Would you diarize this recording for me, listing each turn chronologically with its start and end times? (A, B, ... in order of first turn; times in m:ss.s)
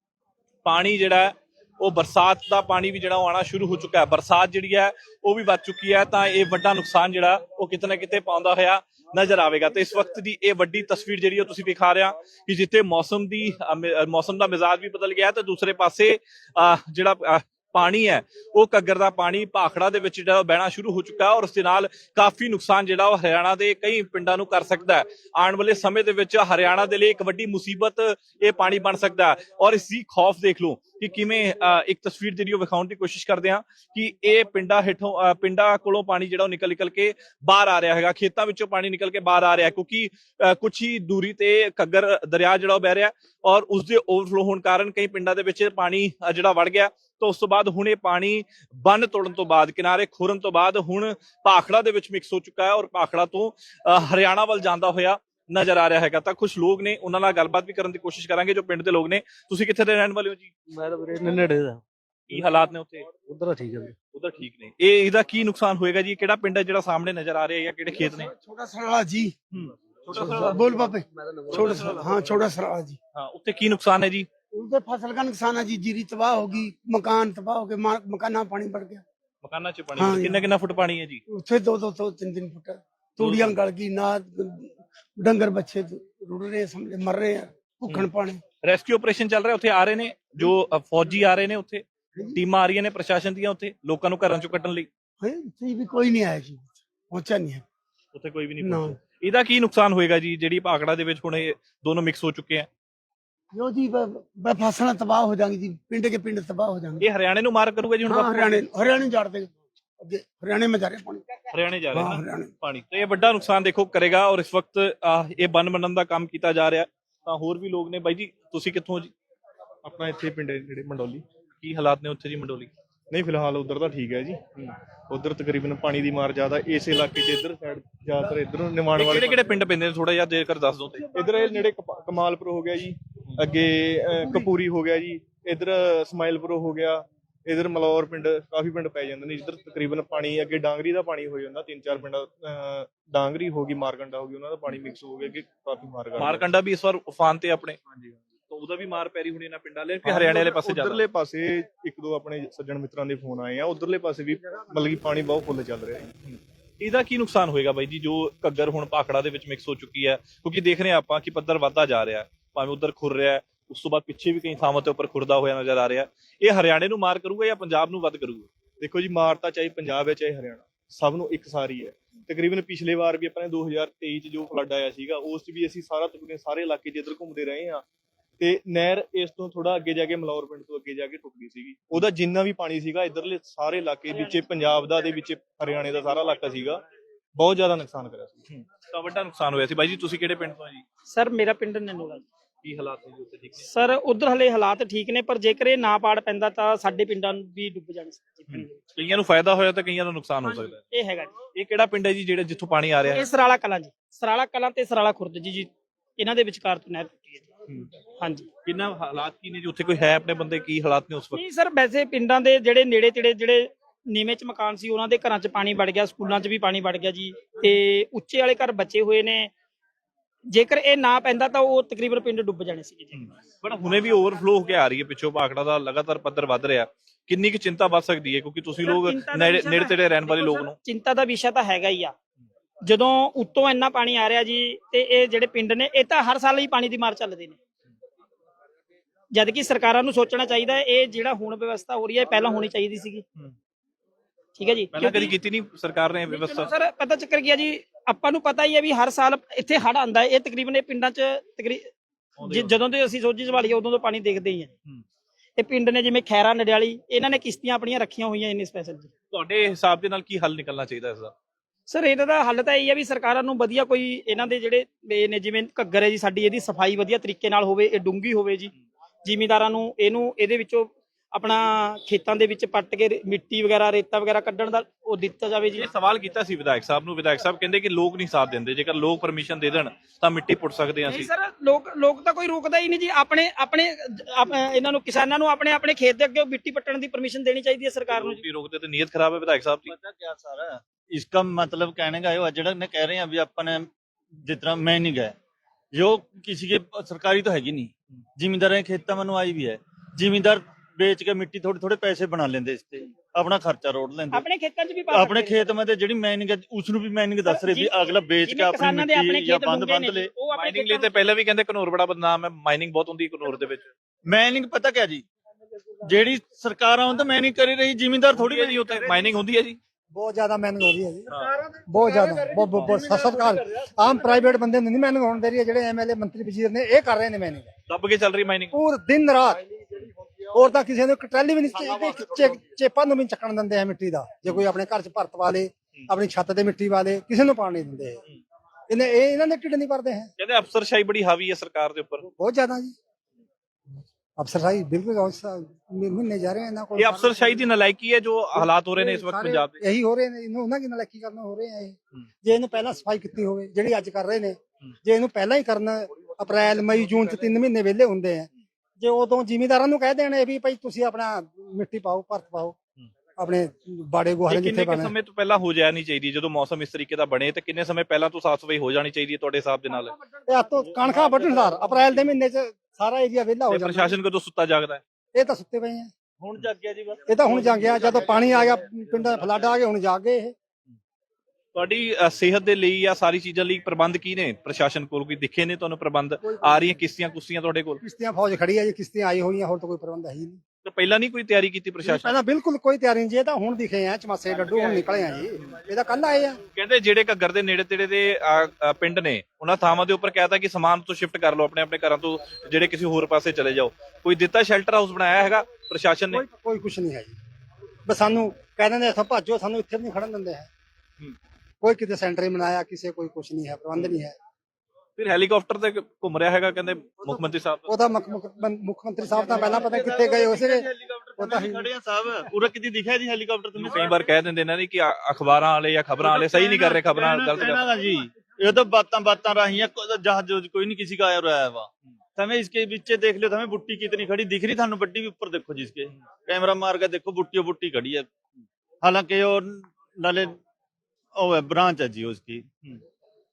0:00.6-1:00.5 A
1:00.7-1:01.8 B
1:02.3-1:03.1 A
1:03.3-1:03.9 B
1:04.1-1:08.3 A
1:08.1-1:09.3 C
1:09.5-1:10.8 A
1:10.1-1:13.0 C
1:10.7-1:12.0 B
1:11.5-1:12.3 A
1:13.1-1:14.3 A
1:14.5-1:19.0 C
1:19.4-1:21.2 A
1:20.0-1:20.5 C
1:21.3-1:28.4 C
1:23.2-1:23.5 A
1:28.6-1:34.9 A
1:35.2-1:37.6 C
1:38.1-1:42.7 A
1:38.6-1:39.0 C
1:43.5-1:47.0 C
1:47.0-1:48.6 A
1:48.0-1:51.2 C
1:51.5-1:59.1 A
1:51.9-1:52.5 C
1:59.8-2:01.2 D
2:01.6-2:02.7 A
2:03.1-2:09.4 D
2:09.0-2:11.1 A
2:11.1-2:26.5 D
2:26.2-2:27.8 A
2:28.5-2:31.0 A
2:30.0-2:36.3 D
2:36.8-2:48.5 A
2:48.8-2:57.8 D
2:58.4-3:06.8 D
3:07.4-3:08.4 D
3:08.5-3:10.8 A
3:11.1-3:12.2 E
3:12.6-3:13.7 A
3:13.7-3:18.7 E
3:18.5-3:20.8 A
3:20.4-3:21.3 E
3:21.5-3:23.2 A
3:23.0-3:27.5 E
3:28.2-3:28.5 E
3:28.6-3:31.4 A
3:31.3-3:39.5 E
3:40.5-3:43.3 E
3:43.1-3:50.8 A
3:48.8-3:52.1 E
3:52.9-3:57.6 E
3:59.3-4:03.2 E
4:04.6-4:05.3 E
4:04.9-4:06.7 A
4:06.3-4:11.9 E
4:12.4-4:12.7 A
4:12.4-4:14.7 E
4:15.6-4:19.1 E
4:19.3-4:21.3 A
4:21.9-4:28.7 E
4:29.2-4:35.9 E
4:35.8-4:41.3 A
4:41.1-4:48.4 E
4:48.1-4:49.9 A
4:49.9-4:53.9 F
4:54.4-4:55.4 F
4:55.9-5:04.4 F
5:04.3-5:05.6 E
5:05.1-5:10.3 F
5:07.4-5:11.1 E
5:10.5-5:13.9 A
5:14.3-5:15.2 F
5:16.0-5:18.8 F
5:18.3-5:19.8 A
5:20.1-5:27.7 G
5:21.3-5:21.6 A
5:27.9-5:28.8 A
5:28.7-5:29.6 G
5:30.4-5:38.2 G
5:38.9-5:40.3 G
5:40.4-5:42.3 A
5:42.3-5:42.9 G
5:44.4-5:47.6 G
5:47.0-5:49.8 A
5:48.6-6:02.8 G
6:03.4-6:05.1 G
6:04.5-6:10.1 A
6:10.5-6:14.2 G
6:11.1-6:11.7 F
6:13.7-6:15.0 A
6:15.3-6:16.1 G
6:16.4-6:18.8 F
6:17.3-6:20.5 G
6:21.7-6:28.0 A
6:28.0-6:30.6 G
6:30.8-6:32.4 A
6:32.0-6:36.6 G
6:36.7-6:46.4 A
6:46.3-6:47.4 G
6:48.1-6:50.7 G
6:51.8-6:54.3 G
6:55.2-6:57.9 A
6:57.9-7:00.8 G
6:59.3-7:04.2 F
7:01.4-7:01.8 G
7:03.8-7:07.8 A
7:06.2-7:20.6 F
7:21.3-7:22.7 F